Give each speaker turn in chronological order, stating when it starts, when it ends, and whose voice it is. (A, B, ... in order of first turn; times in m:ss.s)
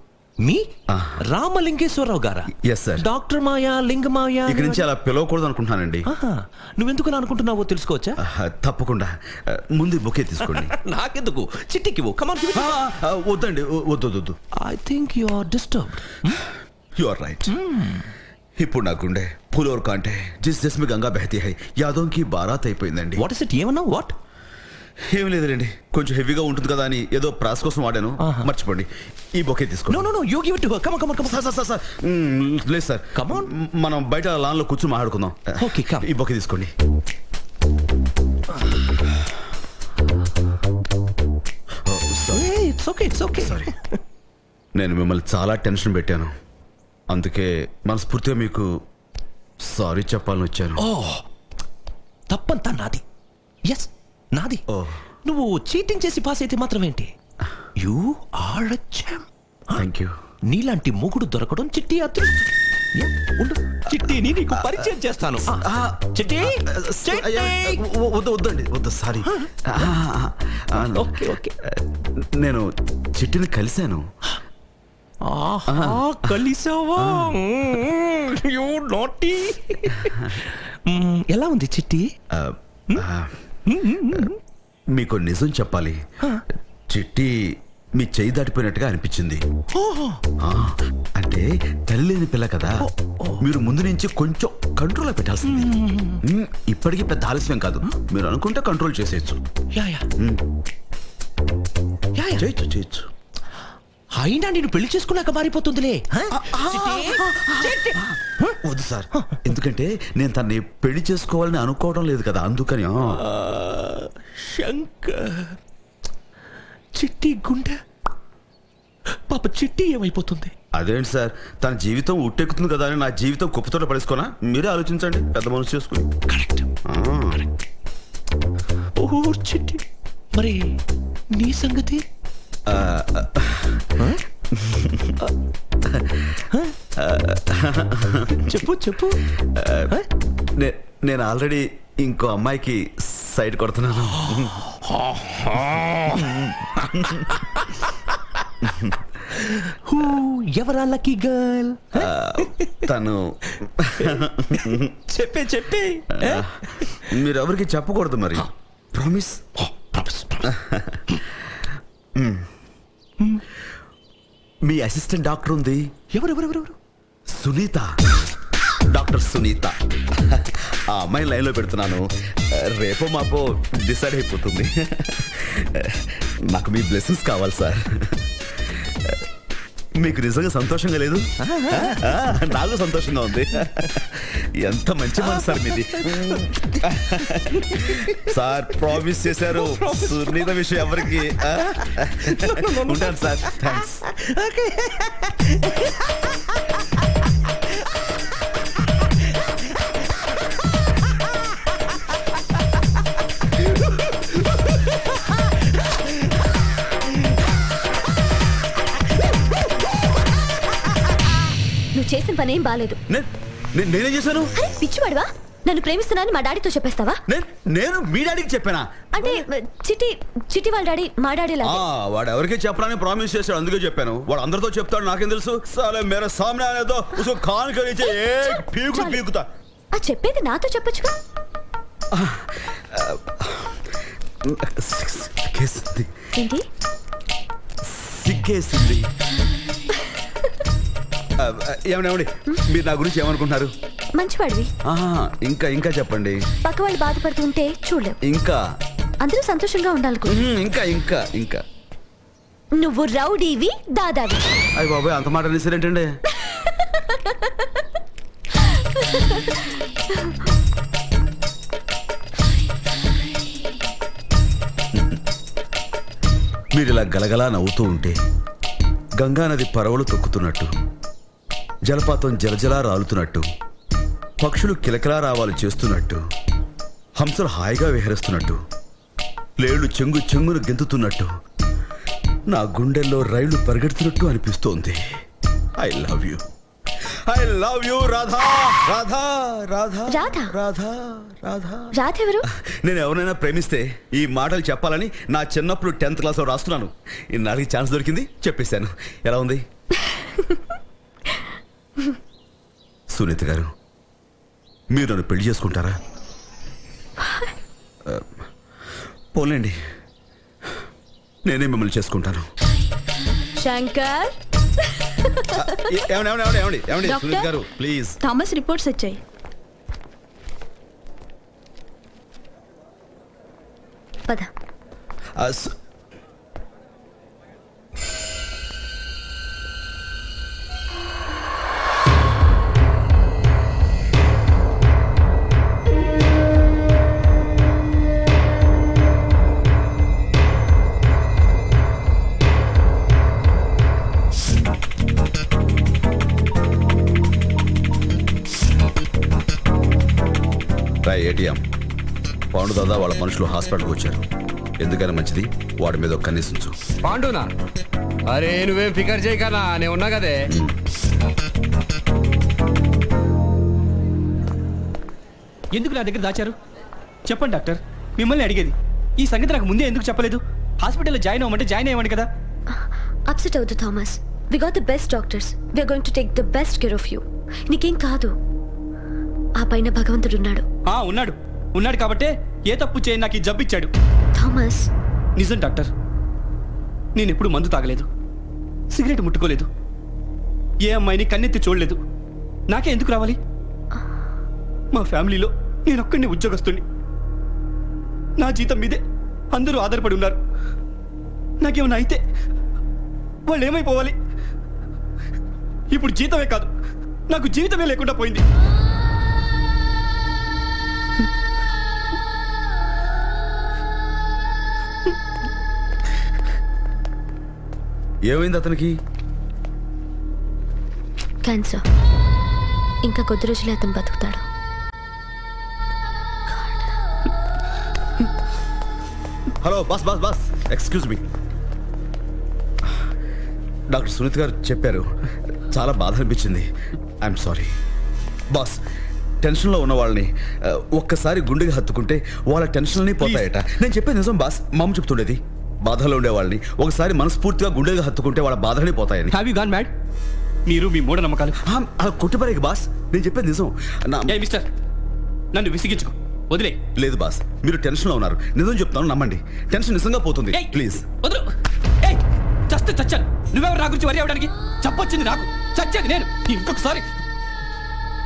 0:00.4-0:00.7 A
0:00.9-0:01.2 B
0:01.3-0:04.8 A
0:02.6-0:03.1 B
0:04.5-0:06.1 B
0:06.1-0:08.2 A
0:08.2-0:10.8 B
0:10.4-0:12.8 A
0:12.5-0:14.4 B
0:14.6-0:16.4 A
0:17.0-0:17.5 B
0:17.5-0:18.1 A
0:18.6-0:23.2 B
0:23.2-0:24.2 A
0:25.1-0:30.1 B
0:28.2-0:28.5 A
0:29.9-0:31.4 A
0:31.2-0:36.7 B
0:33.2-0:33.5 A
0:35.6-0:36.1 A
0:41.8-0:42.5 B
0:42.3-0:44.0 A
0:43.4-0:43.7 B
0:44.8-0:46.3 B
0:47.1-0:48.7 B
0:49.7-0:50.8 B
0:50.8-0:51.2 A
0:52.3-0:53.0 A
0:53.7-0:54.6 A
0:54.7-0:55.0 B
0:55.2-0:57.1 A
0:57.8-0:59.9 A
0:59.8-1:00.2 B
1:00.5-1:05.6 A
1:05.5-1:11.1 B
1:06.1-1:07.8 A
1:09.3-1:09.9 A
1:10.8-1:11.6 A
1:11.7-1:14.0 B
1:15.2-1:22.1 A
1:15.7-1:16.4 B
1:17.0-1:17.4 B
1:22.3-1:23.3 B
1:23.7-1:24.4 A
1:24.9-1:26.0 B
1:26.6-1:29.4 B
1:29.7-1:30.2 A
1:30.4-1:32.9 B
1:32.8-1:33.4 A
1:33.4-1:39.4 B
1:35.5-1:36.2 A
1:39.7-1:40.1 A
1:42.2-1:42.5 A
1:42.4-1:43.1 B
1:44.1-1:48.6 A
1:46.3-1:48.0 B
1:48.6-1:53.2 B
1:53.1-1:55.6 A
1:57.0-1:57.8 A
1:59.3-2:00.5 A
2:00.7-2:06.1 B
2:06.3-2:06.7 A
2:06.9-2:07.5 B
2:09.0-2:09.8 A
2:10.3-2:10.6 A
2:11.4-2:12.0 A
2:12.7-2:14.0 B
2:14.0-2:14.2 A
2:14.5-2:15.2 B
2:15.9-2:16.3 B
2:16.5-2:16.8 A
2:17.0-2:18.4 B
2:18.3-2:19.4 A
2:19.4-2:20.0 B
2:20.6-2:24.6 B
2:24.2-2:28.4 A
2:28.6-2:29.0 B
2:29.3-2:32.8 A
2:32.0-2:34.9 B
2:34.0-2:37.1 A
2:36.2-2:36.5 B
2:37.1-2:39.5 B
2:39.7-2:40.5 A
2:40.4-2:41.0 B
2:42.2-2:42.5 B
2:44.6-2:45.9 B
2:46.1-2:46.8 A
2:47.4-2:48.0 B
2:48.8-2:49.8 B
2:50.3-2:59.3 B
3:00.0-3:14.1 B
3:01.4-3:02.0 A
3:05.2-3:08.3 A
3:09.4-3:10.5 A
3:11.4-3:16.7 A
3:31.9-3:33.0 C
3:33.1-3:34.5 B
3:34.6-3:37.2 C
3:37.3-3:39.4 B
3:39.2-3:41.8 C
3:41.6-3:49.4 B
3:48.3-3:49.2 C
3:49.9-3:51.1 C
3:52.1-3:53.8 B
3:54.4-3:56.1 B
3:56.4-3:56.7 C
3:57.9-3:59.1 B
4:01.4-4:03.7 B
4:04.2-4:04.7 C
4:04.8-4:06.4 B
4:06.6-4:08.2 C
4:08.2-4:08.6 B
4:09.2-4:10.4 C
4:10.3-4:11.6 B
4:12.8-4:14.4 C
4:14.8-4:16.1 B
4:16.4-4:17.6 C
4:18.6-4:19.6 C
4:26.7-4:28.2 B
4:29.2-4:30.7 B
4:31.8-4:33.5 B
4:34.4-4:36.2 B
4:37.2-4:38.6 B
4:39.6-4:41.3 B
4:42.5-4:45.0 B
4:45.8-4:46.4 B
4:47.3-4:51.9 B
4:50.1-4:50.5 C
4:51.9-4:52.5 C
4:52.5-4:59.6 B
5:03.1-5:03.7 B
5:04.9-5:06.0 B
5:09.3-5:09.8 B
5:11.4-5:12.5 B
5:13.6-5:14.3 D
5:13.6-5:14.2 C
5:15.6-5:18.2 B
5:17.1-5:17.4 D
5:18.3-5:19.2 D
5:18.3-5:19.1 C
5:25.4-5:25.7 B
5:51.0-5:51.6 B
5:52.5-5:54.2 B
5:54.8-5:56.8 B
5:57.0-5:57.5 E
5:58.3-6:00.5 E
6:00.5-6:00.8 B
6:05.8-6:06.6 D
6:07.3-6:12.3 D
6:12.7-6:18.3 C
6:19.6-6:20.6 C
6:20.9-6:23.9 D
6:24.4-6:24.9 C
6:25.4-6:25.9 D
6:27.2-6:28.1 D
6:28.9-6:29.7 D
6:30.9-6:32.0 D
6:32.7-6:33.4 D
6:35.0-6:36.8 D
6:38.4-6:39.0 D
6:39.5-6:40.4 D
6:41.6-6:42.2 D
6:43.5-6:44.2 D
6:45.9-6:46.7 D
6:47.3-6:48.4 D
6:58.3-6:59.0 B
7:01.4-7:01.8 C
7:03.0-7:04.4 C
7:06.5-7:06.8 C
7:09.6-7:11.2 B
7:13.9-7:15.1 B
7:15.7-7:16.7 B
7:17.2-7:17.7 B
7:18.5-7:18.8 B
7:19.4-7:29.4 B
7:29.4-7:29.9 D
7:30.7-7:31.5 D
7:31.6-7:34.4 B
7:34.3-7:34.7 D
7:35.6-7:36.8 D
7:37.0-7:41.1 B
7:41.2-7:41.5 D
7:42.0-7:47.1 D